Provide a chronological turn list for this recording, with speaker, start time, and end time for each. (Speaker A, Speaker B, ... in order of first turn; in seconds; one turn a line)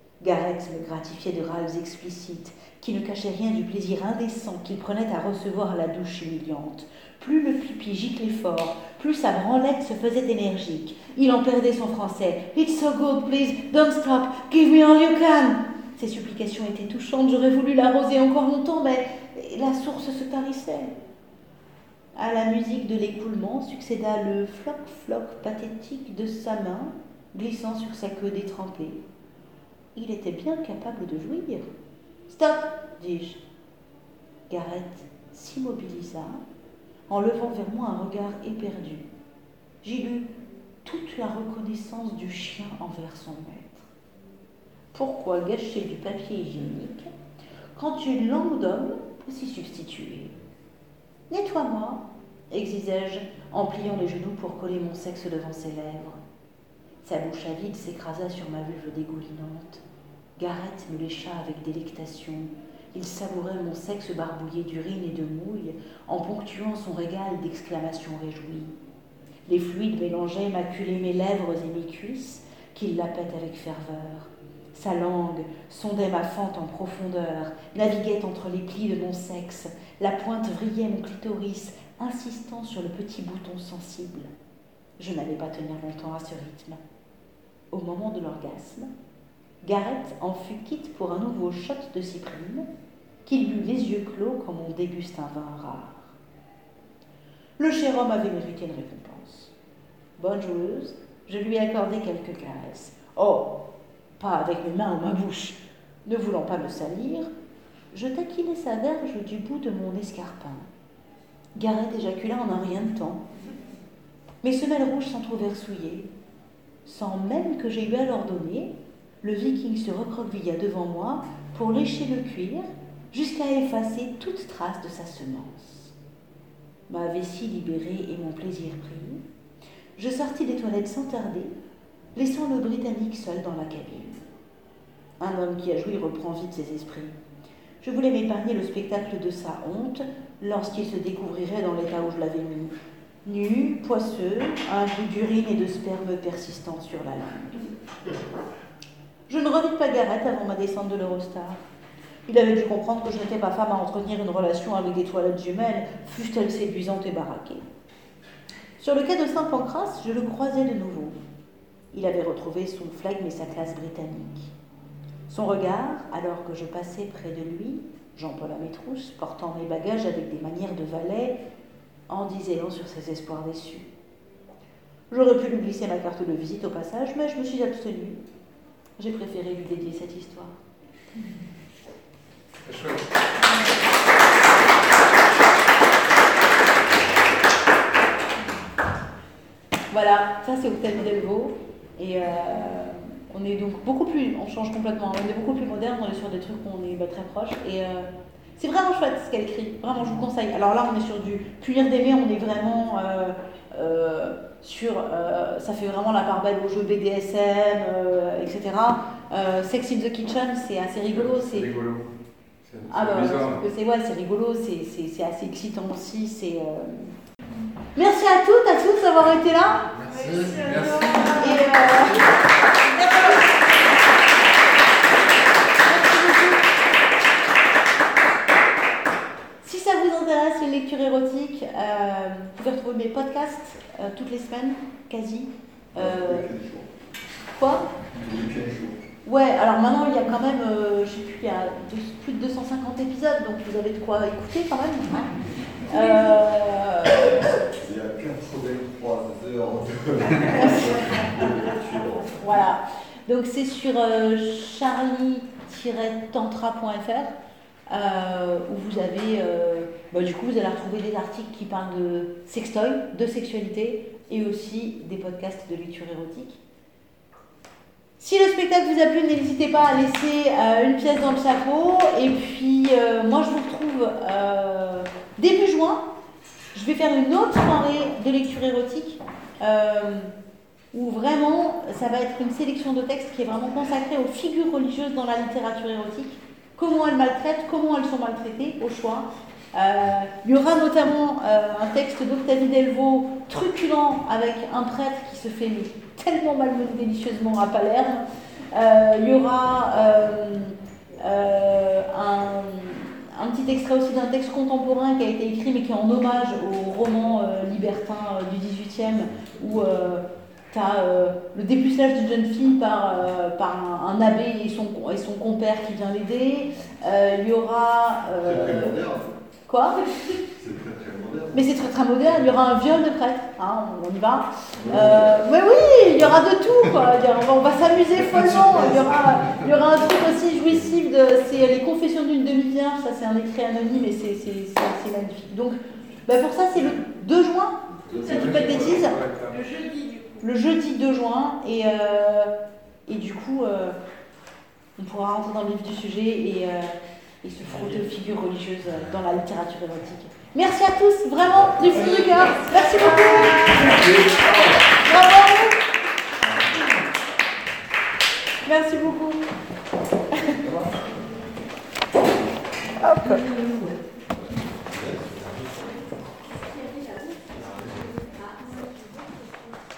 Speaker A: 0.2-20.9
Speaker A: 22.1-29.0
Speaker A: 29.9-31.7
Speaker A: 32.3-33.4
Speaker A: 34.5-36.4
Speaker A: 37.1-39.1
Speaker A: 39.8-40.3
Speaker A: 40.8-43.9
Speaker A: 44.9-47.1
Speaker A: 47.8-50.3
Speaker A: 51.3-56.2
Speaker A: 57.0-59.8
Speaker A: 60.4-68.8
Speaker A: 69.5-84.3
Speaker A: 85.0-86.8
Speaker A: 87.7-88.9
Speaker A: 89.6-92.7
Speaker A: 93.2-96.1
Speaker A: 97.6-99.5
Speaker A: 100.2-103.6
Speaker A: 104.2-107.3
Speaker A: 107.9-110.7
Speaker A: 111.5-113.2
Speaker A: 114.4-116.1
Speaker A: 116.8-125.9
Speaker A: 126.9-129.2
Speaker A: 129.9-131.5
Speaker A: 132.1-134.2
Speaker A: 135.2-137.1
Speaker A: 137.8-147.7
Speaker A: 149.3-151.6
Speaker A: 152.3-157.6
Speaker A: 158.8-161.2
Speaker A: 161.9-164.5
Speaker A: 165.3-171.4
Speaker A: 172.1-173.9
Speaker A: 175.1-178.2
Speaker A: 179.0-180.5
Speaker B: 182.6-183.0
Speaker A: 189.9-211.7
Speaker B: 211.1-212.1
Speaker B: 212.7-213.6
Speaker A: 212.9-217.1
Speaker A: 217.9-219.9
Speaker B: 220.0-222.3
Speaker A: 221.3-222.2
Speaker A: 222.9-223.5
Speaker A: 225.8-226.6
Speaker A: 229.6-236.5
Speaker C: 235.9-236.9
Speaker A: 237.5-237.8
Speaker C: 238.2-239.0
Speaker A: 239.2-245.2
Speaker A: 245.9-247.4
Speaker C: 247.8-252.3
Speaker A: 252.3-257.3
Speaker A: 257.9-266.6
Speaker A: 268.2-276.1
Speaker A: 276.7-280.3
Speaker A: 280.9-319.0
Speaker C: 318.4-319.3
Speaker A: 319.7-320.0
Speaker C: 320.6-321.6
Speaker A: 321.5-339.1
Speaker C: 324.9-325.3
Speaker B: 338.2-339.6
Speaker A: 340.3-342.5
Speaker A: 343.1-343.9
Speaker A: 345.0-354.1
Speaker B: 353.5-354.8
Speaker A: 354.9-355.8
Speaker A: 358.6-359.5
Speaker A: 363.0-363.6
Speaker C: 364.9-365.9
Speaker C: 367.5-368.2